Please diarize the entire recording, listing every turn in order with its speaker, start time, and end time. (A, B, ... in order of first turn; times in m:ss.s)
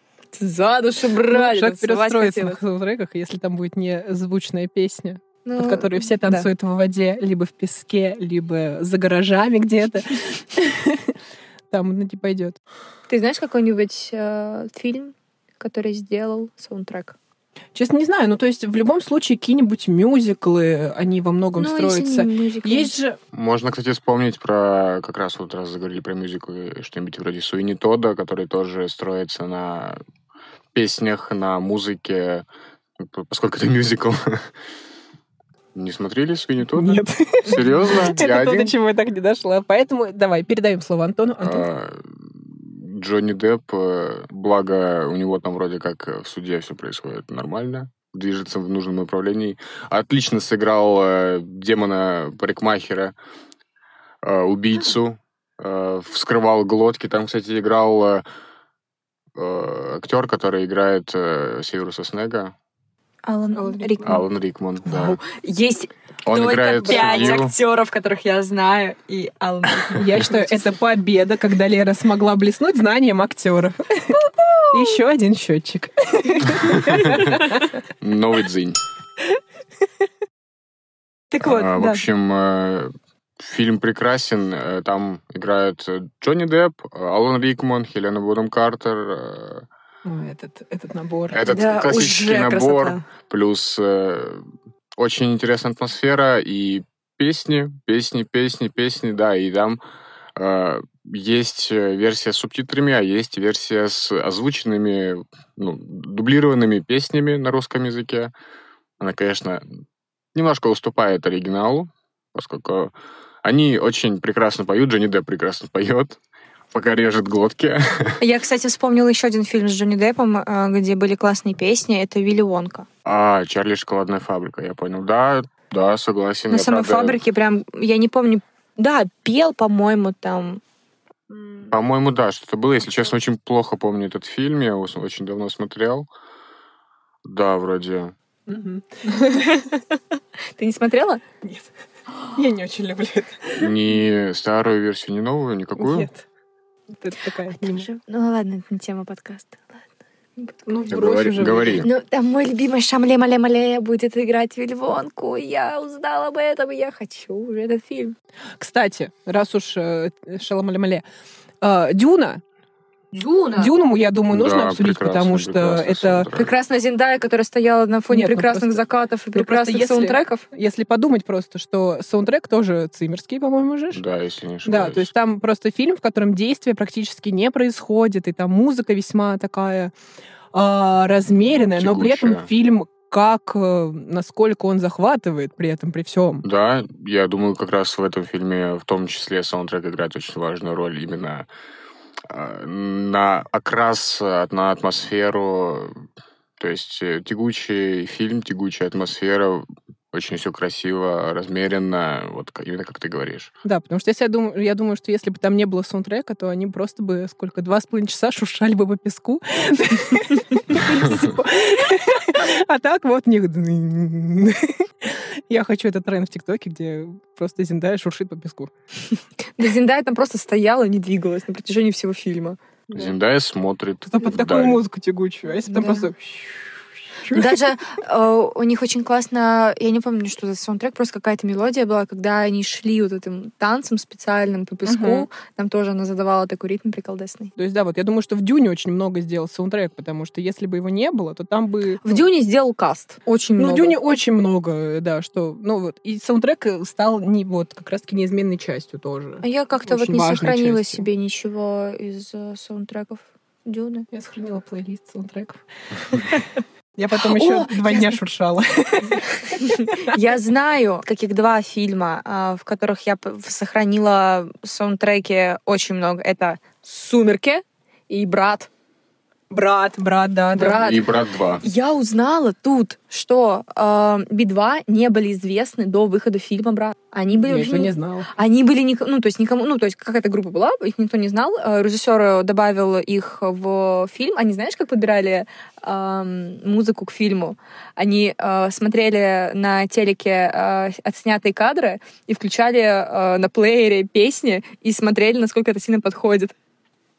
0:00.3-0:02.6 A
0:01.3-0:11.2 B
0:05.4-0:06.5 A
0:11.7-0:12.6 B
0:13.1-0:17.2 A
0:17.7-0:23.2 B
0:21.6-0:22.9 A
0:23.3-0:30.0 C
0:30.7-0:32.4 C
0:33.0-0:34.4 C
0:35.8-0:38.7 C
0:36.8-0:41.7 B
0:41.4-0:53.2 C
0:54.2-0:58.2 C
0:59.4-1:02.5 C
1:03.2-1:04.2 A
1:03.5-1:04.2 B
1:04.0-1:05.2 C
1:04.8-1:10.6 A
1:06.2-1:07.5 C
1:06.8-1:07.4 B
1:10.0-1:17.6 B
1:14.4-1:14.8 A
1:16.5-1:18.8 C
1:21.3-1:22.0 A
1:21.4-1:29.7 C
1:30.0-1:31.6 B
1:31.3-1:34.5 C
1:31.5-1:33.0 A
1:35.0-1:39.8 C
1:40.4-1:48.3 C
1:49.0-1:49.8 C
1:50.3-1:52.9 C
1:53.4-1:56.2 C
1:56.7-1:58.2 C
1:58.2-2:02.9 A
2:03.0-2:07.2 C
2:06.5-2:10.6 A
2:11.3-2:11.7 A
2:11.7-2:16.1 C
2:17.2-2:18.1 C
2:18.5-2:19.6 B
2:19.3-2:20.0 A
2:20.6-2:21.2 A
2:21.4-2:21.7 B
2:22.3-2:23.7 B
2:23.6-2:26.1 C
2:25.8-2:26.2 B
2:26.9-2:27.9 B
2:27.6-2:29.8 A
2:30.4-2:30.7 A
2:30.7-2:31.8 B
2:30.9-2:31.9 C
2:31.8-2:38.2 A
2:38.6-2:41.0 B
2:41.6-2:42.4 B
2:43.1-2:43.8 A
2:43.6-2:46.3 B
2:44.3-2:46.5 C
2:46.4-2:50.4 A
2:48.1-2:48.8 B
2:49.3-2:54.0 B
2:53.9-2:55.1 C
2:54.6-2:59.9 B
3:00.5-3:06.4 B
3:01.7-3:02.5 C
3:06.4-3:11.5 C
3:12.3-3:16.0 C
3:16.6-3:23.5 C
3:23.6-3:38.7 B
3:39.6-3:42.6 A
3:42.9-3:44.8 C
3:44.1-3:47.6 B
3:45.7-3:46.1 A
3:47.3-3:57.5 A
3:54.8-3:55.3 B
3:57.6-4:02.2 B
4:02.0-4:04.0 A
4:03.6-4:11.1 B
4:09.4-4:14.1 A
4:14.1-4:16.4 B
4:17.0-4:20.2 B
4:17.2-4:18.2 A
4:19.6-4:28.7 A
4:29.5-4:30.9 B
4:30.6-4:31.1 A
4:30.8-4:31.6 C
4:31.6-4:56.5 A
4:37.4-4:38.3 B